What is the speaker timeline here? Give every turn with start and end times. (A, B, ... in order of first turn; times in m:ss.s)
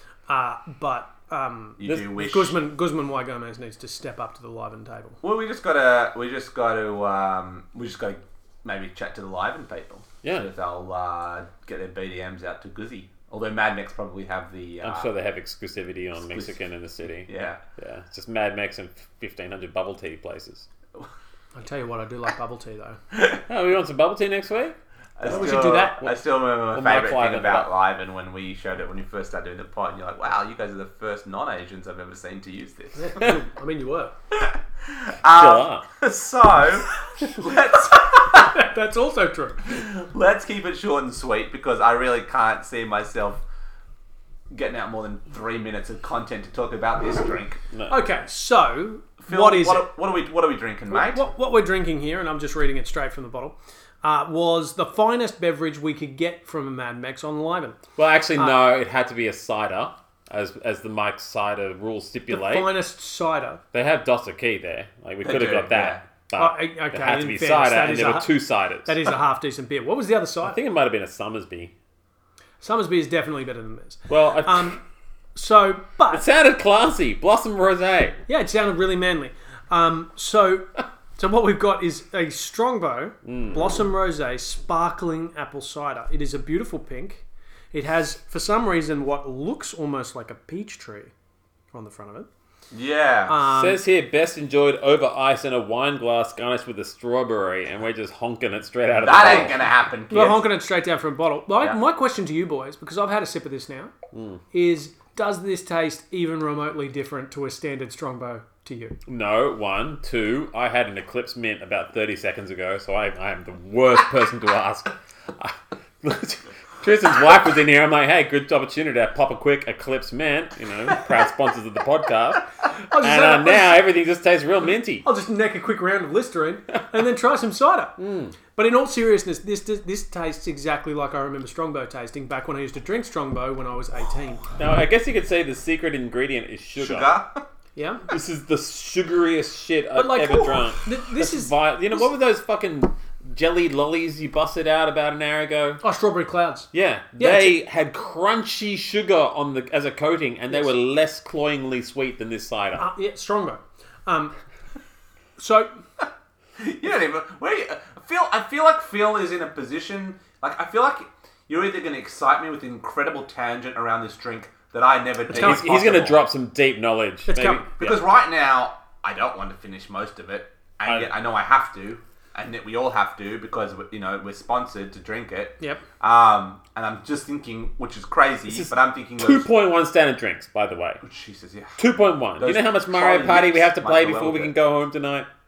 0:00.3-0:05.2 A
0:01.8-0:02.6 B
0:05.2-0:15.1 B
0:14.8-0:20.7 C
0:16.2-0:16.6 B
0:17.2-0:17.6 B
0:21.6-0:23.0 A
0:23.1-0:23.4 B
0:23.5-0:25.8 C
0:25.2-0:33.3 B
0:25.3-0:26.1 A
0:26.7-0:27.7 C
0:33.0-0:34.1 A
0:34.3-0:38.5 B
0:35.3-0:35.8 C
0:38.3-0:39.6 A
0:39.6-0:43.4 B
0:44.5-0:47.6 B
0:47.7-0:48.0 C
0:47.9-0:49.9 A
0:49.2-0:51.3 B
0:50.9-0:57.8 A
0:58.0-1:02.7 C
1:02.3-1:03.6 A
1:03.7-1:09.0 C
1:05.2-1:06.0 B
1:06.4-1:08.3 A
1:08.8-1:10.6 A
1:10.4-1:11.7 C
1:12.6-1:14.8 A
1:14.1-1:14.8 C
1:15.4-1:16.2 A
1:16.1-1:18.2 C
1:18.3-1:31.1 A
1:23.2-1:23.8 C
1:31.7-1:32.3 A
1:32.7-1:33.4 B
1:33.3-1:33.8 A
1:33.5-1:39.6 C
1:39.0-1:40.5 B
1:40.1-1:43.9 A
1:44.1-1:44.4 C
1:44.5-1:49.0 A
1:49.1-2:05.1 C
2:02.9-2:03.8 A
2:05.0-2:08.0 A
2:08.0-2:08.4 C
2:08.5-2:14.5 A
2:14.6-2:17.1 C
2:16.8-2:17.4 B
2:17.8-2:18.0 A
2:18.1-2:25.8 C
2:19.9-2:22.1 A
2:25.8-2:27.6 A
2:26.7-2:32.9 C
2:32.8-2:34.3 A
2:35.4-2:35.7 A
2:36.6-2:46.2 B
2:45.3-2:48.0 C
2:45.3-2:45.7 A
2:47.3-2:47.6 A
2:47.8-2:59.5 B
2:50.8-2:51.1 C
2:58.5-3:01.0 C
3:01.0-3:01.8 B
3:01.8-3:05.3 C
3:02.4-3:04.5 B